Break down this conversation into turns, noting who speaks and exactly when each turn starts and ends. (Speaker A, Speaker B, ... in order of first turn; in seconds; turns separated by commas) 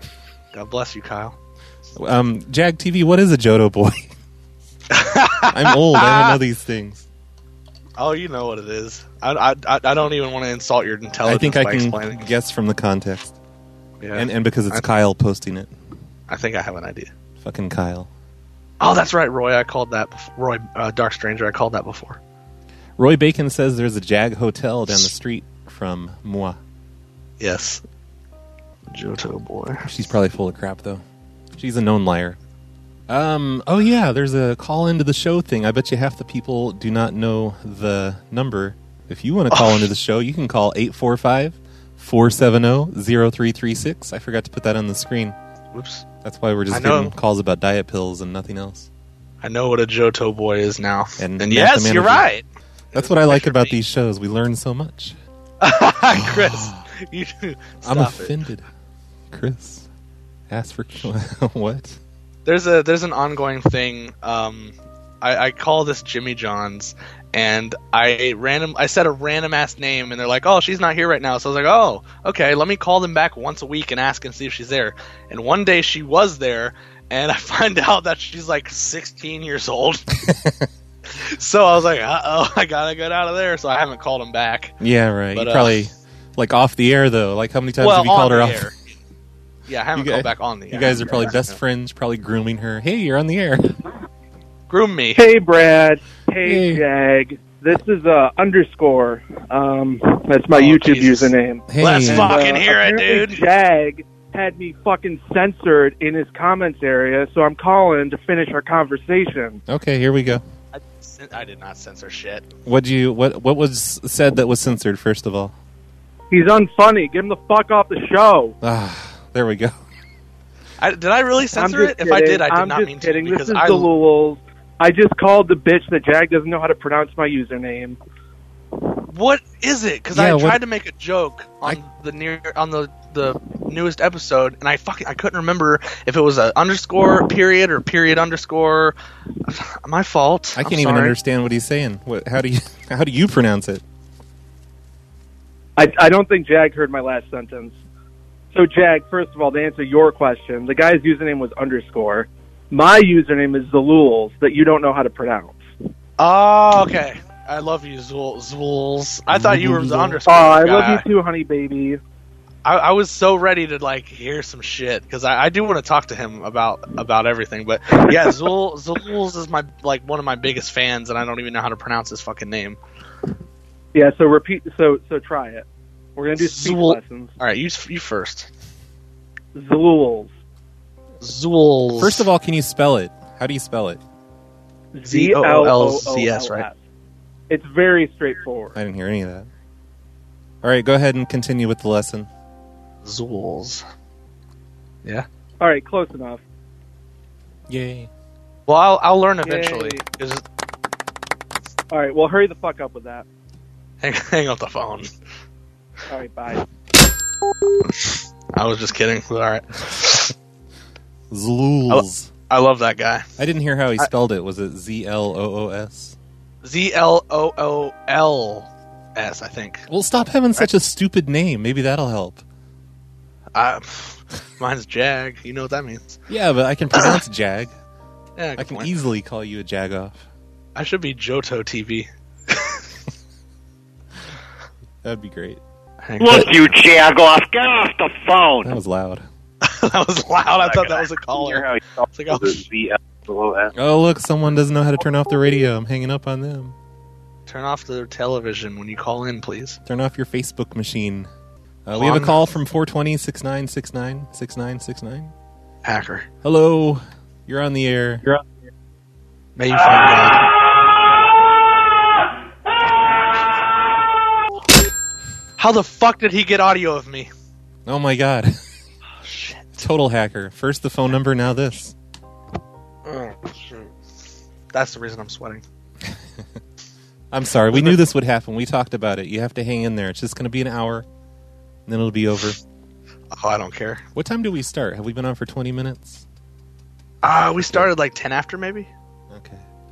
Speaker A: 0.5-1.4, Speaker B: 1.9-4.1, Speaker A: 4.9-6.4, Speaker B: 5.5-7.0, Speaker A: 8.0-12.2, Speaker B: 11.2-13.3, Speaker A: 14.0-14.8, Speaker B: 14.1-15.7, Speaker A: 16.3-17.1, Speaker B: 17.4-18.1, Speaker A: 18.8-22.2, Speaker B: 23.0-26.6, Speaker A: 27.4-27.8, Speaker A: 28.9-29.9, Speaker B: 29.8-31.0, Speaker B: 31.6-32.4, Speaker B: 33.1-45.4, Speaker A: 39.5-39.9, Speaker A: 45.7-46.0, Speaker B: 46.2-48.9, Speaker A: 46.7-47.1, Speaker A: 49.4-53.7, Speaker B: 51.2-52.3, Speaker B: 52.9-55.2, Speaker A: 55.6-58.3, Speaker B: 56.2-56.8, Speaker B: 57.8-58.6, Speaker B: 59.3-59.9, Speaker B: 60.5-62.0, Speaker A: 62.4-80.0, Speaker B: 80.2-80.7, Speaker A: 81.1-84.7, Speaker B: 84.8-88.7, Speaker A: 85.3-85.7, Speaker A: 87.8-88.8, Speaker A: 89.7-91.5, Speaker B: 89.9-93.7, Speaker A: 94.7-95.2, Speaker C: 95.1-109.6, Speaker B: 96.4-96.8, Speaker A: 100.5-103.5, Speaker B: 101.7-102.3, Speaker B: 109.7-110.4, Speaker A: 110.7-112.5, Speaker B: 112.7-115.5, Speaker C: 116.3-118.5, Speaker B: 118.6-119.7, Speaker A: 120.8-123.9, Speaker C: 121.5-128.0, Speaker A: 129.1-138.9, Speaker B: 130.1-130.6, Speaker A: 139.4-141.2, Speaker B: 140.6-143.8, Speaker C: 145.8-147.8, Speaker C: 148.5-155.6, Speaker A: 156.2-161.0, Speaker B: 159.3-160.2, Speaker C: 160.2-162.0, Speaker A: 162.6-172.8, Speaker C: 173.9-175.6, Speaker C: 176.2-177.3, Speaker A: 176.4-178.5, Speaker C: 179.5-180.3, Speaker A: 181.2-182.3, Speaker B: 182.0-184.0, Speaker C: 184.9-186.8, Speaker A: 185.0-186.7, Speaker C: 187.5-188.8, Speaker B: 188.7-189.5, Speaker B: 190.6-192.3, Speaker A: 193.0-193.8, Speaker C: 195.6-196.4, Speaker B: 197.7-198.1, Speaker A: 198.7-200.4, Speaker C: 199.4-200.0, Speaker C: 201.9-203.2, Speaker A: 204.0-205.1, Speaker C: 206.1-206.6, Speaker A: 207.8-210.3, Speaker B: 211.3-212.3, Speaker A: 211.9-213.2, Speaker B: 213.4-216.2, Speaker A: 216.6-219.8, Speaker B: 219.9-222.4, Speaker A: 223.5-226.2, Speaker B: 226.3-227.7, Speaker A: 228.4-228.9, Speaker B: 228.6-230.2, Speaker A: 230.8-232.8, Speaker B: 235.0-235.6, Speaker A: 236.0-236.6, Speaker D: 236.2-238.7, Speaker B: 238.6-239.2, Speaker A: 239.6-242.7, Speaker B: 243.7-246.7, Speaker A: 247.5-249.8, Speaker B: 249.8-251.3, Speaker B: 251.8-255.3, Speaker A: 251.9-252.4, Speaker A: 255.8-256.3, Speaker B: 256.4-258.2, Speaker A: 259.6-260.4, Speaker A: 265.6-267.3, Speaker B: 267.9-268.6, Speaker A: 269.2-269.9, Speaker B: 269.8-271.9, Speaker A: 273.1-273.9, Speaker A: 274.7-275.6, Speaker B: 276.0-276.4, Speaker B: 277.3-281.0, Speaker A: 277.7-278.0, Speaker B: 281.9-282.6, Speaker A: 283.3-284.0, Speaker B: 284.1-286.2, Speaker A: 287.2-288.9, Speaker B: 289.3-289.6